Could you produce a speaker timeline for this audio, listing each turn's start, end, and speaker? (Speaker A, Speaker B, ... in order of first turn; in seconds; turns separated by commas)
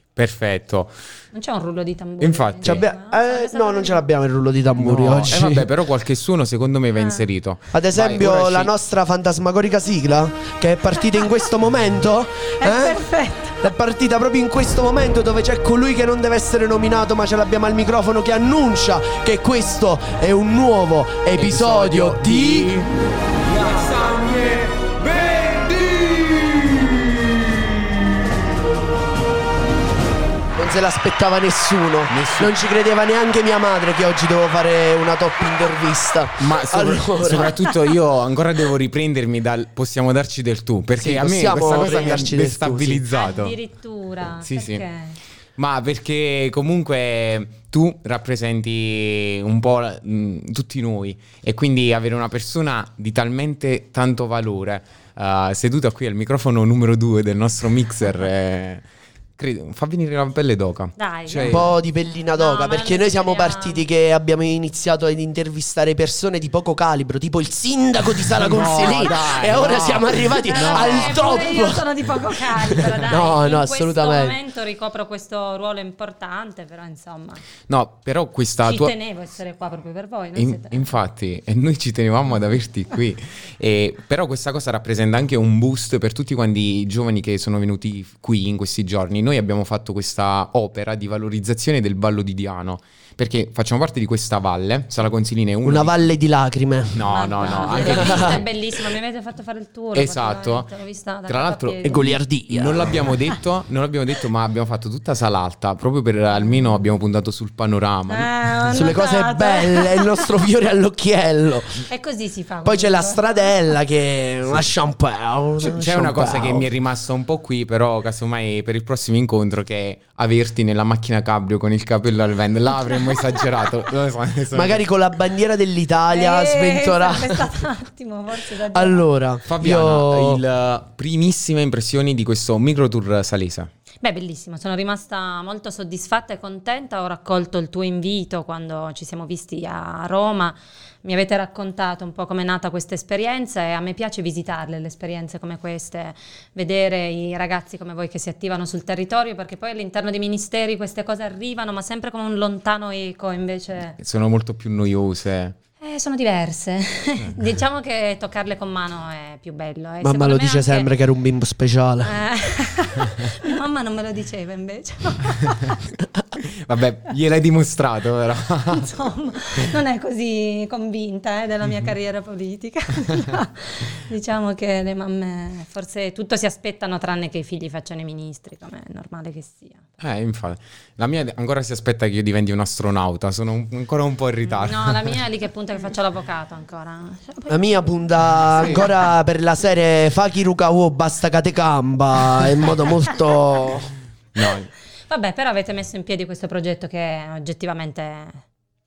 Speaker A: 0.1-0.9, Speaker B: 1.3-4.0, Speaker A: 2.2-2.8, Speaker C: 2.6-5.7, Speaker A: 4.8-8.7, Speaker B: 6.9-7.2, Speaker C: 7.7-13.0, Speaker B: 12.6-13.6, Speaker C: 13.6-22.8, Speaker A: 21.3-22.9, Speaker A: 23.5-26.9, Speaker C: 30.6-37.5, Speaker A: 32.1-32.5, Speaker A: 36.4-43.5, Speaker C: 41.0-43.0, Speaker B: 43.1-45.2, Speaker A: 44.4-44.8, Speaker A: 45.6-58.8, Speaker A: 59.4-61.7, Speaker B: 61.0-61.7, Speaker C: 61.4-71.8, Speaker B: 62.3-63.8, Speaker A: 68.3-71.3, Speaker B: 70.5-77.4, Speaker C: 73.0-74.3, Speaker A: 77.7-78.9, Speaker B: 78.6-80.9, Speaker A: 80.3-96.1, Speaker C: 95.6-97.0, Speaker A: 96.9-98.5, Speaker B: 97.1-102.2, Speaker C: 97.6-98.4, Speaker A: 99.9-100.7, Speaker A: 101.3-102.0, Speaker C: 101.8-103.0, Speaker A: 102.5-108.3, Speaker B: 108.1-110.3, Speaker C: 108.7-111.8, Speaker B: 111.9-113.7, Speaker C: 112.6-116.7, Speaker A: 115.7-124.8, Speaker C: 124.5-127.5, Speaker B: 126.1-129.1, Speaker C: 128.7-130.4, Speaker A: 129.5-133.7, Speaker B: 134.0-154.0, Speaker A: 154.0-155.6, Speaker B: 155.8-160.9, Speaker C: 160.0-162.1, Speaker B: 162.0-165.8, Speaker A: 166.5-168.9, Speaker B: 168.7-179.8, Speaker A: 180.0-185.0, Speaker B: 184.4-188.9, Speaker C: 187.5-193.9, Speaker A: 194.3-194.7, Speaker B: 195.1-198.4